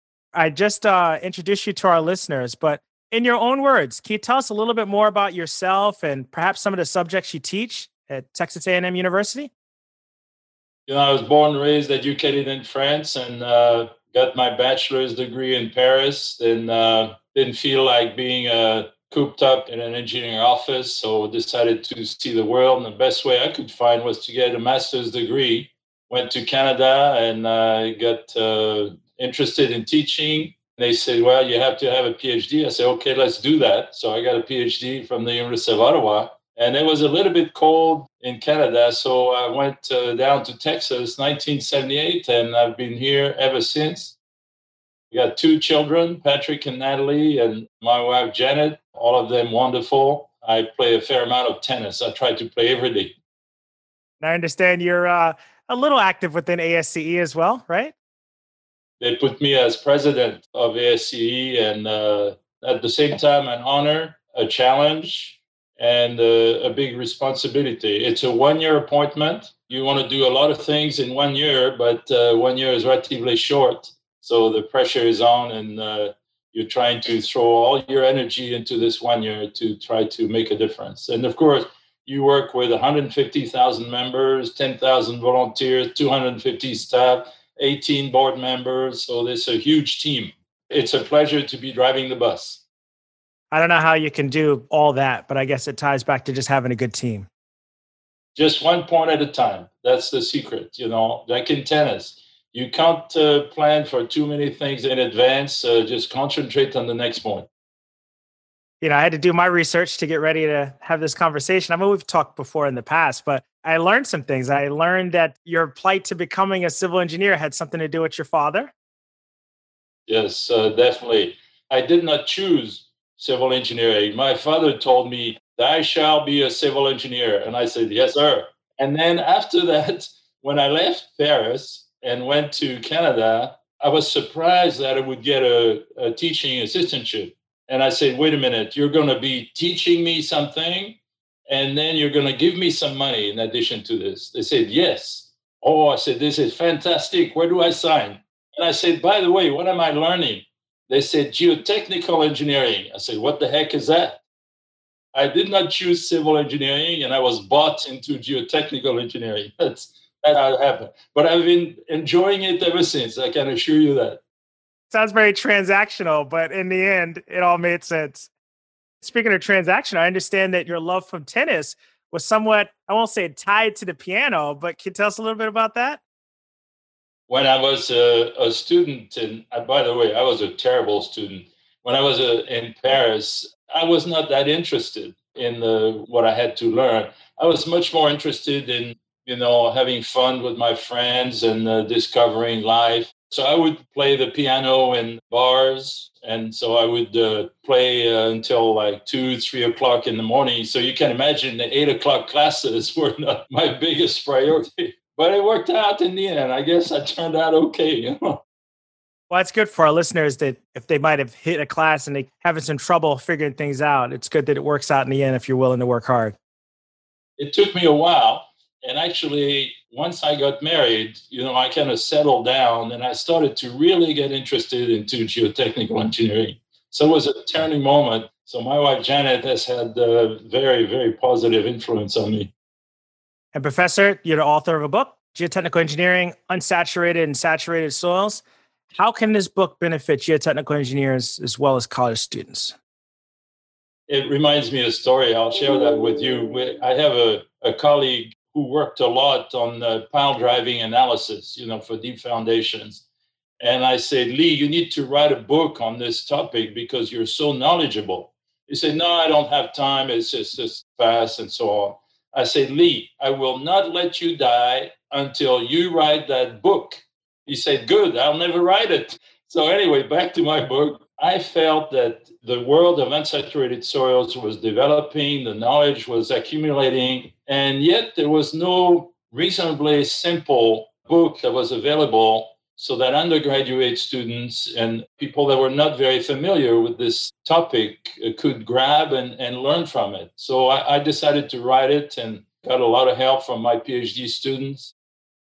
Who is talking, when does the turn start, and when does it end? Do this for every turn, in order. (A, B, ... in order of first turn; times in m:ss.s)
0:00.3-0:09.5 A
0:10.9-0:44.2 B
0:45.1-0:53.2 B
0:54.2-0:57.9 A
0:59.0-1:32.6 B
1:33.5-1:37.3 A
1:38.3-1:47.5 B
1:48.8-1:58.7 A
2:00.1-2:21.0 B
2:21.5-2:34.2 B
2:35.1-2:44.2 B
2:44.9-2:48.3 A
2:49.0-2:56.0 A
2:57.3-3:28.4 B
3:29.3-3:36.4 A
3:37.4-3:52.5 B
3:53.5-3:58.4 A
3:58.9-4:02.7 A
4:04.1-4:13.0 B
4:13.6-4:54.9 B